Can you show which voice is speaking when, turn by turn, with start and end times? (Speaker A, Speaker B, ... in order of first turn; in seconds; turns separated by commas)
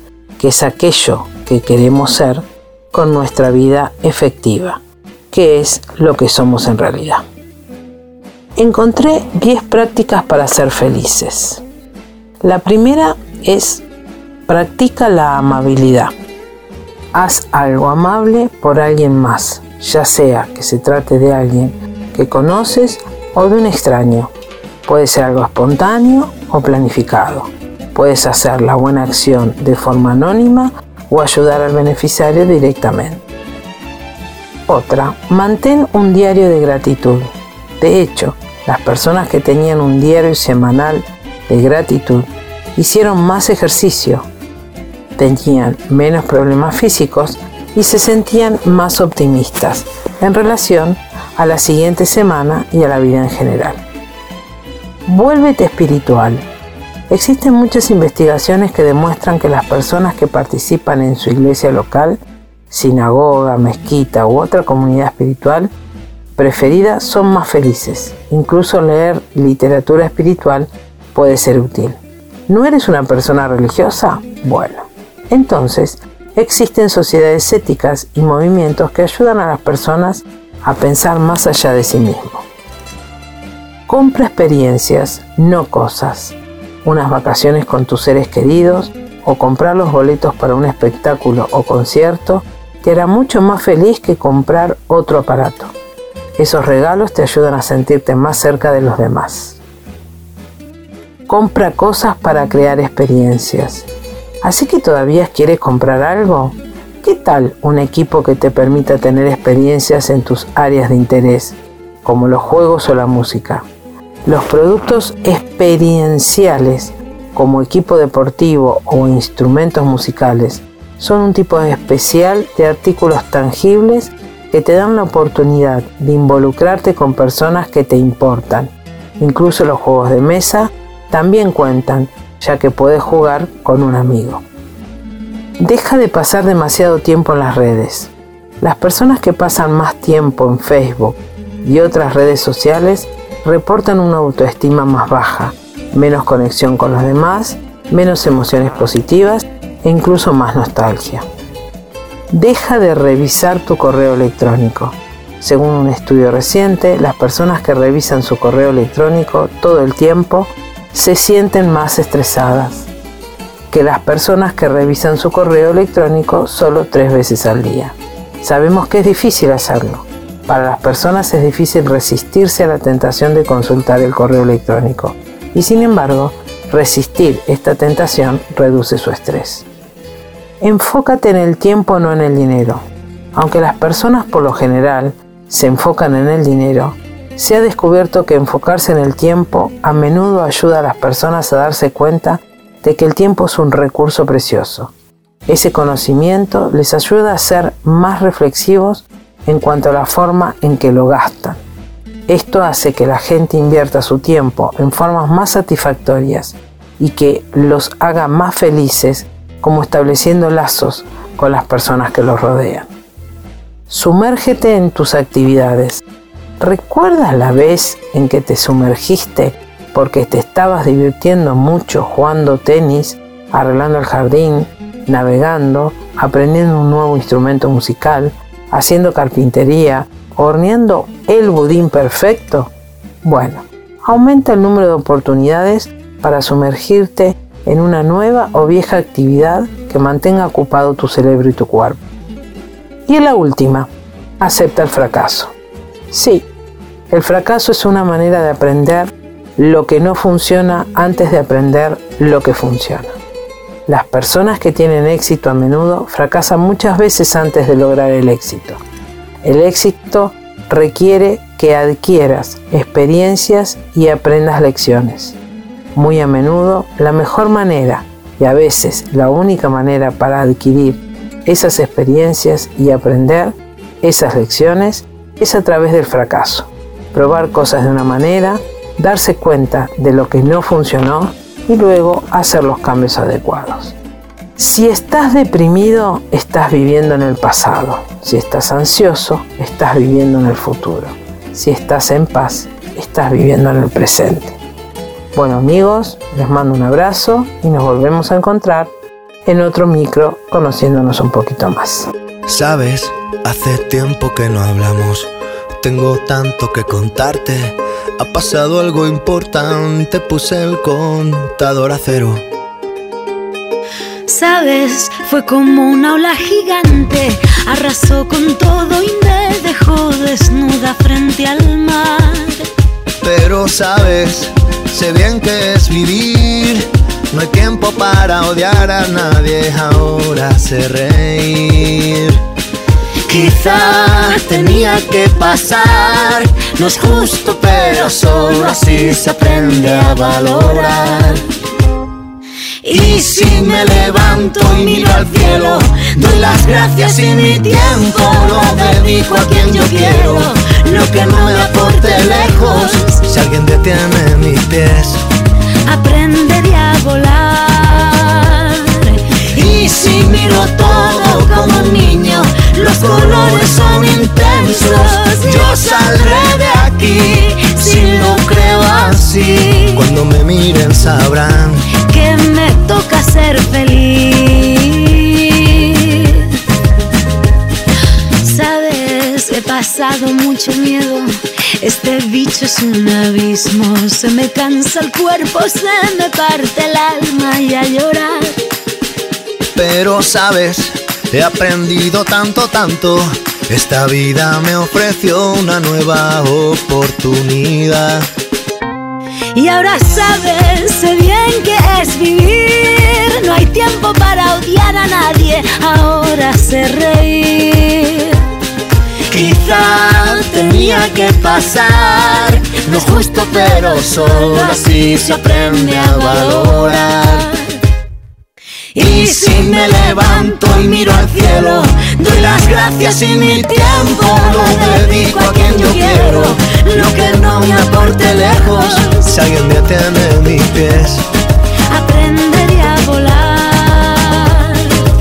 Speaker A: 0.4-7.3, Speaker A: 8.6-11.6, Speaker A: 12.4-13.8, Speaker A: 14.5-16.1, Speaker A: 17.1-24.3, Speaker A: 24.9-33.2, Speaker A: 34.7-44.3, Speaker A: 45.2-53.8, Speaker A: 55.1-56.5, Speaker A: 57.1-62.2, Speaker A: 62.7-65.7, Speaker A: 66.4-82.5, Speaker A: 83.9-95.7, Speaker A: 96.4-99.6, Speaker A: 101.3-103.9, Speaker A: 104.4-113.7, Speaker A: 114.3-134.4, Speaker A: 135.6-151.3, Speaker A: 152.3-162.9, Speaker A: 163.7-179.7, Speaker A: 180.6-182.8, Speaker A: 183.3-194.9, Speaker A: 195.5-201.6, Speaker A: 202.3-212.9, Speaker A: 213.9-216.0, Speaker A: 216.6-232.7, Speaker A: 233.2-242.0, Speaker A: 243.1-245.6, Speaker A: 246.1-246.5, Speaker A: 247.1-253.2, Speaker A: 253.9-258.8, Speaker A: 259.4-265.4, Speaker A: 265.9-284.0, Speaker A: 284.6-294.6, Speaker A: 295.3-298.9, Speaker A: 299.4-302.1, Speaker B: 302.5-305.3, Speaker B: 305.8-312.5, Speaker C: 314.3-322.6, Speaker B: 323.2-332.4, Speaker C: 333.4-333.7, Speaker B: 334.0-336.5, Speaker C: 334.4-335.0, Speaker C: 336.9-341.4, Speaker B: 337.5-341.4, Speaker C: 342.8-353.2, Speaker B: 342.9-355.2, Speaker C: 355.9-366.6, Speaker B: 359.8-360.4, Speaker B: 360.9-361.7, Speaker B: 362.9-371.8, Speaker C: 367.2-370.0, Speaker C: 372.0-376.5, Speaker C: 378.4-388.5, Speaker B: 389.8-398.3, Speaker C: 399.5-408.4, Speaker B: 409.3-409.6, Speaker C: 409.6-417.5, Speaker B: 410.4-411.4, Speaker B: 412.2-417.4, Speaker C: 418.9-429.3, Speaker B: 419.0-421.9, Speaker B: 422.5-431.2, Speaker C: 431.9-434.8